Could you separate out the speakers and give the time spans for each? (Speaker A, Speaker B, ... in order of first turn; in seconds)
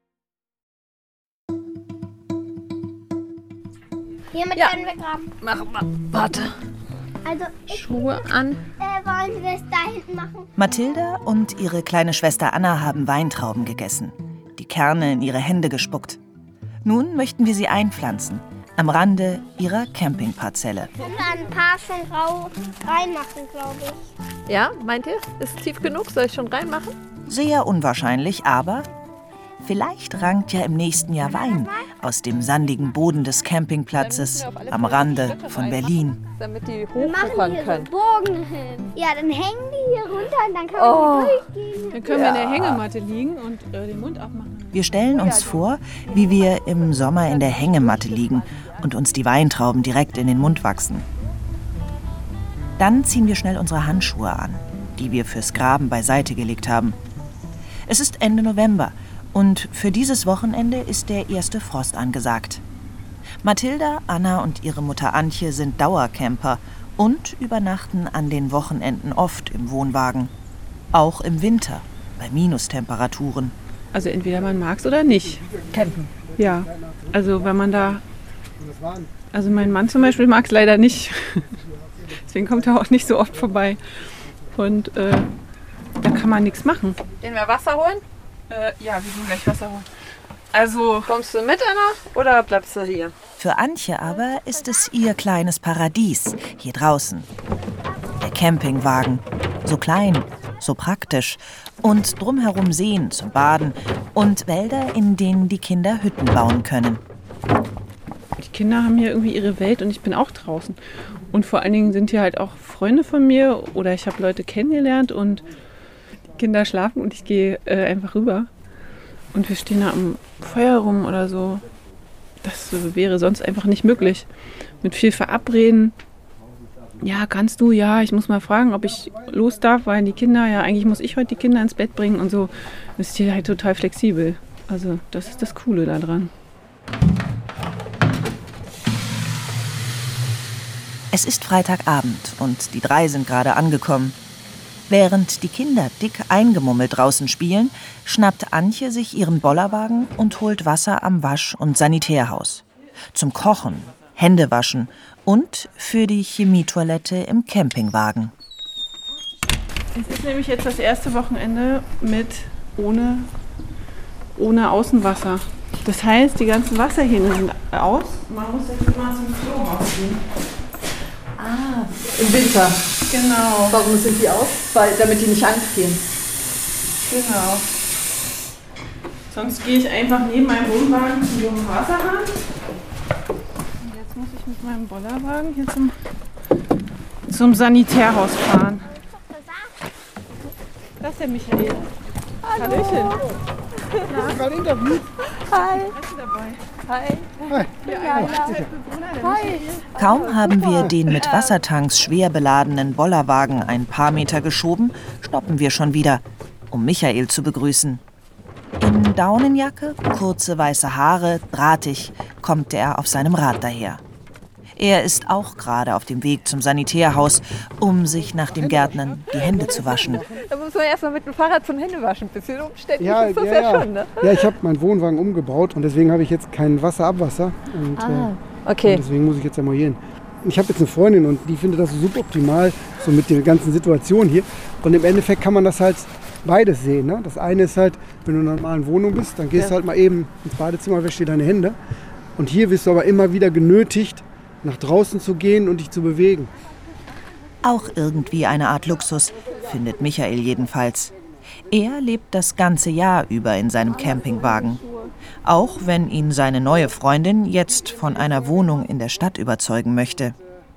Speaker A: 4.3-5.3, 7.2-8.2, 8.8-10.5, 21.0-24.1, 31.2-31.9, 37.0-42.3, 189.0-189.7
Speaker B: 5.4-6.5, 7.7-8.6, 24.5-26.9, 34.0-37.9, 40.7-41.5, 42.0-42.6, 45.1-45.6, 46.9-48.8, 75.7-76.1, 87.2-88.0, 91.0-93.1, 171.4-172.8, 173.7-176.0, 192.4-193.2, 193.9-194.3, 195.3-195.9, 196.9-198.6, 199.2-201.5, 219.5-224.5, 227.9-229.0
Speaker C: 10.6-16.2, 16.8-20.9, 27.2-28.9, 29.6-36.2, 42.4-42.8, 44.7-51.1, 52.8-57.0, 57.9-62.6, 63.4-70.3, 70.9-73.5, 93.4-97.3, 98.2-107.0, 141.1-144.2, 144.9-158.3, 199.9-208.0, 208.8-214.0, 214.8-220.2, 247.6-251.1, 251.7-254.8, 255.4-260.3
Speaker D: 41.9-44.9, 73.9-75.4, 76.4-78.0, 79.3-81.5, 82.2-83.8, 84.5-85.3, 86.0-87.0, 88.5-89.8, 90.5-91.1, 108.4-110.8, 111.3-115.5, 116.3-118.5, 119.3-121.6, 122.4-124.2, 124.8-125.9, 127.0-136.3, 159.9-163.3, 164.3-170.2, 173.1-173.8, 177.0-177.7, 179.3-182.4, 183.8-185.9, 187.3-188.9, 191.0-191.9, 192.5-193.2, 194.1-194.6, 195.7-196.6, 197.8-199.8
Speaker E: 75.3-78.0, 78.6-79.1, 194.1-195.1, 197.5-198.6, 218.7-220.4, 223.0-228.3, 228.8-241.8, 242.4-246.5